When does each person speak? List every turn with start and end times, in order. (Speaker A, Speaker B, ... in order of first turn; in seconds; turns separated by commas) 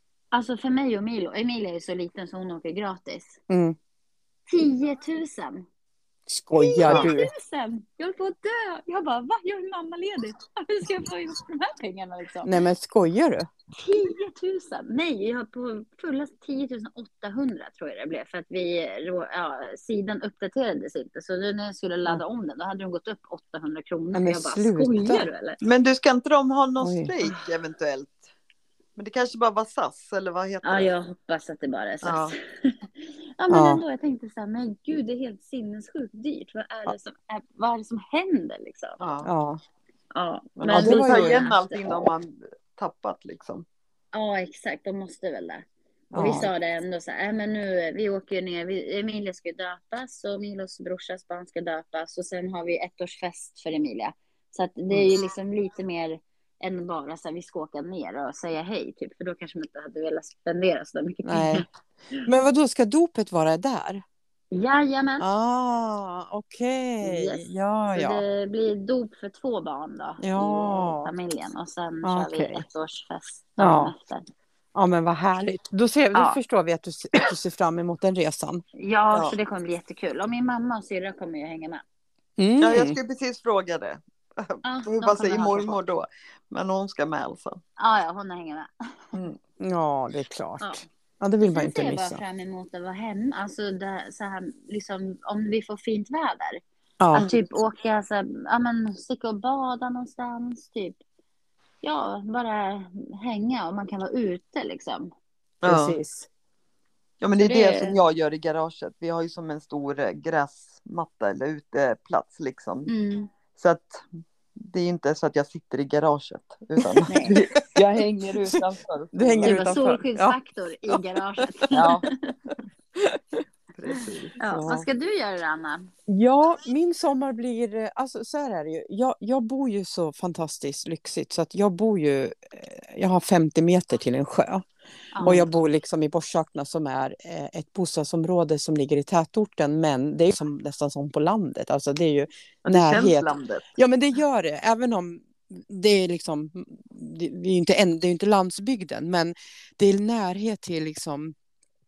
Speaker A: 0.3-3.4, Speaker B: 3.5-3.8, Speaker A: 4.5-5.7, Speaker B: 6.3-7.3, Speaker A: 6.5-12.6, Speaker C: 6.8-7.1, Speaker B: 12.4-13.5, Speaker A: 13.8-25.6, Speaker B: 24.1-25.3, Speaker C: 25.6-28.3, Speaker B: 26.8-27.1, Speaker C: 29.0-30.9, Speaker A: 30.6-39.0, Speaker C: 32.0-32.4, Speaker B: 33.5-33.8, Speaker C: 39.0-39.3, Speaker B: 39.2-39.6, Speaker A: 40.1-42.0, Speaker C: 40.6-43.6, Speaker B: 40.7-41.4, Speaker A: 44.1-61.6, Speaker B: 46.1-46.5, Speaker B: 61.2-61.7, Speaker B: 62.2-64.0, Speaker A: 64.5-65.3, Speaker B: 65.2-68.2, Speaker A: 67.0-74.3, Speaker B: 70.2-71.1, Speaker B: 72.0-72.6, Speaker B: 73.6-73.9, Speaker B: 74.8-78.6, Speaker A: 76.1-76.4, Speaker A: 78.8-81.8, Speaker B: 82.4-83.0, Speaker C: 82.6-87.6, Speaker A: 84.6-85.8, Speaker A: 87.8-89.2, Speaker B: 89.6-92.2, Speaker A: 91.4-96.6, Speaker B: 97.0-97.3, Speaker A: 97.1-101.0, Speaker C: 97.1-97.4, Speaker A: 101.8-105.1, Speaker C: 105.6-106.0, Speaker B: 105.6-106.3, Speaker C: 107.2-112.9, Speaker A: 107.4-108.0, Speaker A: 112.9-113.3, Speaker C: 113.6-119.6, Speaker A: 117.1-117.4, Speaker B: 119.1-120.4, Speaker A: 119.4-122.3, Speaker B: 120.9-121.7, Speaker C: 121.7-122.0, Speaker B: 123.0-123.4, Speaker C: 123.7-124.4, Speaker A: 124.4-125.9, Speaker B: 124.5-124.9, Speaker B: 126.1-134.7, Speaker A: 135.1-135.5, Speaker B: 135.2-151.3, Speaker C: 142.6-143.7